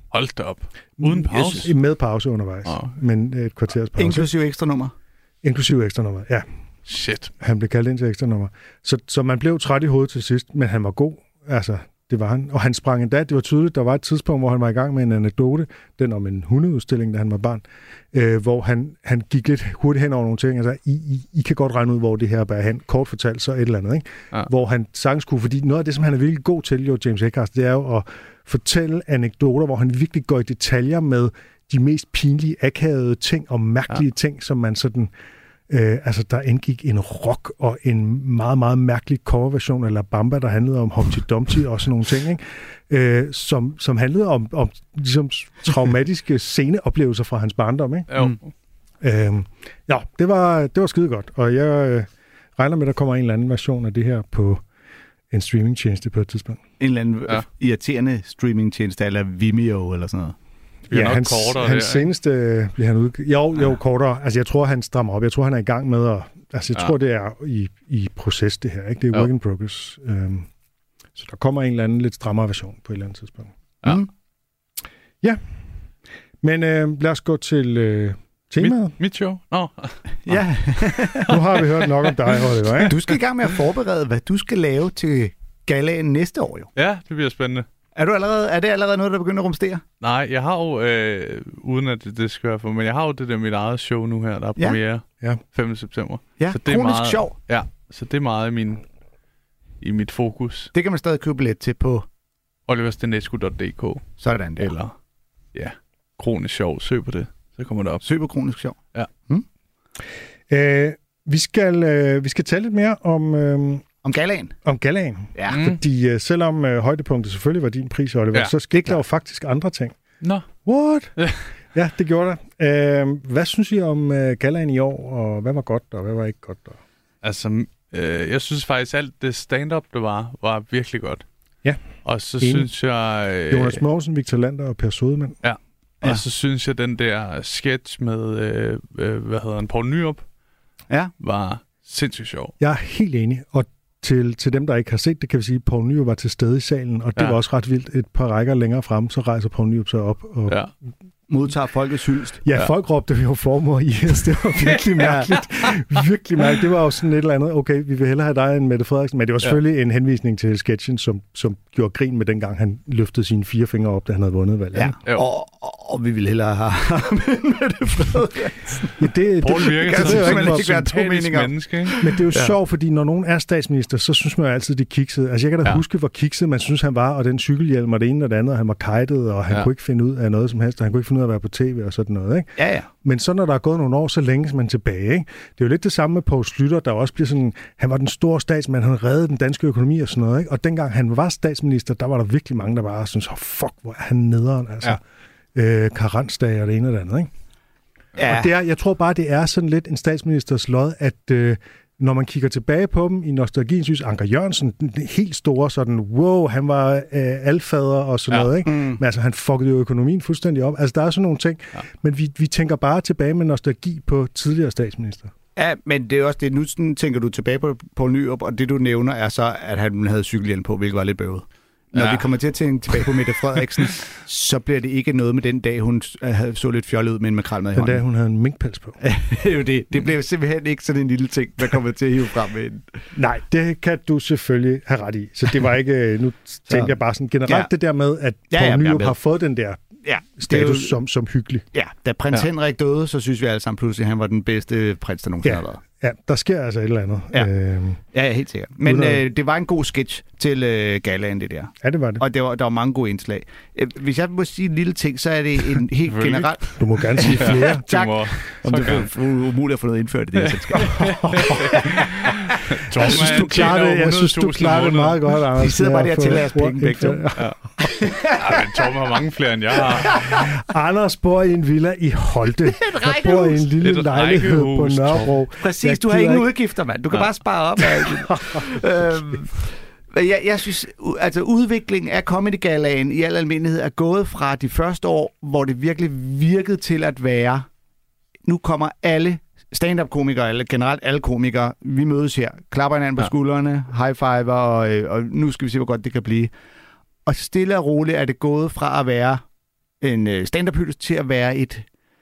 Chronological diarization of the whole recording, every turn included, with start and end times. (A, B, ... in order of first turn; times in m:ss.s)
0:00.1-0:01.7 A
0:01.0-0:04.3 B
0:02.7-0:02.9 A
0:04.0-0:04.9 C
0:05.4-0:06.4 B
0:06.9-0:07.3 A
0:07.4-0:35.1 B
0:35.7-0:48.1 B
0:48.1-0:48.4 A
0:49.0-0:54.6 B
0:55.3-0:56.6 B
0:56.8-1:00.4 C
1:00.9-1:02.1 A
1:00.9-1:10.5 B
1:11.2-1:13.5 B
1:13.8-1:14.1 C
1:16.4-1:19.0 B
1:18.6-1:22.4 A
1:20.3-1:21.3 C
1:21.2-1:23.0 B
1:22.9-1:26.7 C
1:26.8-1:27.7 A
1:28.0-1:29.8 C
1:30.0-1:38.8 A
1:36.4-1:37.4 C
1:39.8-1:40.7 A
1:40.7-1:42.1 C
1:42.7-1:44.1 A
1:44.2-1:44.7 C
1:44.6-1:44.9 A
1:45.5-1:48.0 A
1:48.0-1:48.8 C
1:50.5-1:53.8 B
1:54.0-1:54.6 C
1:54.6-2:00.0 B
1:55.5-1:55.8 A
2:00.2-2:00.5 A
2:00.6-2:01.2 B
2:01.7-2:06.8 B
2:07.2-2:11.2 A
2:12.0-2:13.8 A
2:12.4-2:12.7 B
2:13.5-2:15.4 B
2:15.4-2:20.2 A
2:21.2-2:22.5 A
2:22.6-2:30.6 B
2:31.3-2:32.4 C
2:32.4-2:45.0 B
2:44.7-2:49.0 C
2:49.0-2:50.7 B
2:49.4-2:52.1 A
2:49.6-2:52.6 C
2:52.0-3:15.0 B
3:02.6-3:02.9 C
3:15.5-3:17.3 B
3:18.2-3:18.5 C
3:18.2-3:35.3 B
3:28.6-3:29.0 C
3:35.6-3:48.0 C
3:42.0-3:42.2 A
3:47.8-3:49.0 B
3:49.0-3:52.8 C
3:53.1-3:59.8 B
3:56.7-3:57.0 C
3:58.5-3:59.2 C
4:00.0-4:01.0 C
4:00.4-4:01.7 B
4:01.7-4:05.8 C
4:05.4-4:08.0 B
4:08.1-4:23.7 C
4:08.8-4:09.2 B
4:11.8-4:12.2 B
4:16.1-4:16.7 A
4:16.8-4:17.9 B
4:17.3-4:19.1 A
4:20.5-4:25.3 A
4:20.9-4:22.1 B
4:23.0-4:27.5 B
4:25.6-4:28.9 C
4:28.2-4:30.3 A
4:30.1-4:30.4 C
4:30.3-4:36.5 B
4:32.8-4:33.6 C
4:33.8-4:35.4 A
4:35.6-4:47.7 C
4:48.5-4:56.5 C
4:57.3-4:59.4 C
5:00.0-5:01.8 C